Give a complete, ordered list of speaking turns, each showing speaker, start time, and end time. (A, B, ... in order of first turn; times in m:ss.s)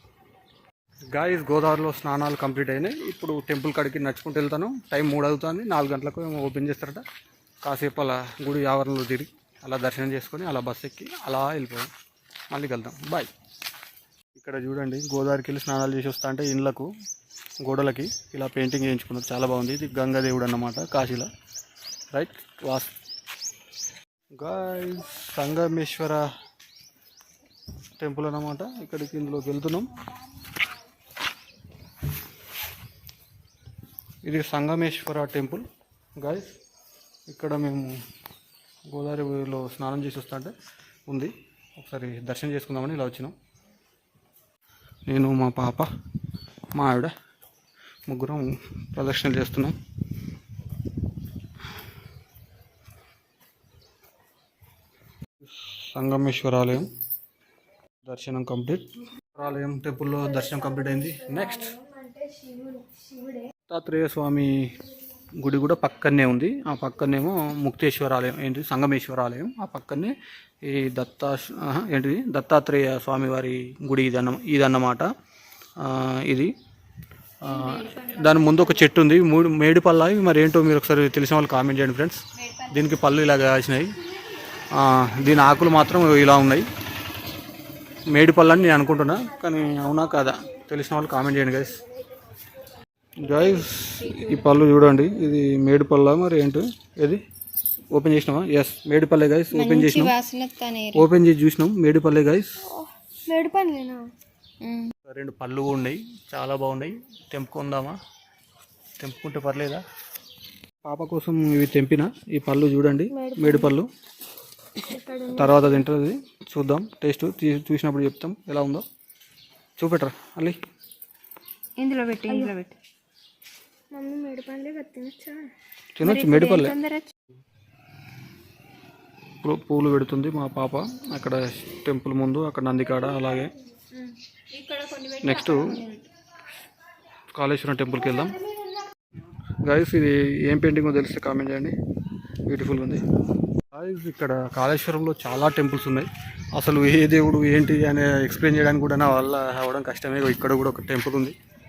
0:01.1-0:07.0 A
0:07.6-0:11.9 A
0:12.5-0:13.3 A
0:14.3-0:16.9 A
0:17.6-0:21.3 A
0:22.1-0:22.9 A
0:24.3-0:26.2 A
0:28.0-0:29.9 A
0:34.2-0:36.6 A
0:37.3-0:37.9 A
0:38.9-0:40.5 A
0:41.1-0:43.3 A
0:45.1-0:45.9 A
0:46.7-0:47.1 A
0:48.1-0:49.7 A
0:55.4-0:56.9 A
0:58.0-1:01.7 A
1:00.6-1:03.5 B
1:03.7-1:04.7 A
1:05.4-1:15.0 A
1:15.8-1:16.5 A
1:17.4-1:24.0 A
1:17.6-1:18.1 B
1:24.7-1:26.6 A
1:28.1-1:31.8 A
1:33.2-1:37.2 A
1:37.9-1:40.1 A
1:39.5-1:41.0 C
1:40.9-1:42.6 A
1:42.7-1:44.0 B
1:44.6-1:44.9 C
1:45.0-1:48.0 A
1:49.0-1:49.8 A
1:50.8-1:53.9 A
1:53.1-1:53.7 B
1:54.8-1:55.7 B
1:55.4-1:58.8 A
1:59.8-2:00.6 A
2:01.8-2:02.7 C
2:02.2-2:02.6 B
2:03.9-2:05.4 B
2:06.0-2:06.8 A
2:06.0-2:07.1 C
2:06.2-2:06.6 B
2:09.4-2:13.5 A
2:14.5-2:15.1 C
2:14.6-2:15.7 B
2:15.2-2:15.8 A
2:17.3-2:18.4 A
2:19.6-2:21.7 A
2:22.5-2:23.0 A
2:23.7-2:31.3 A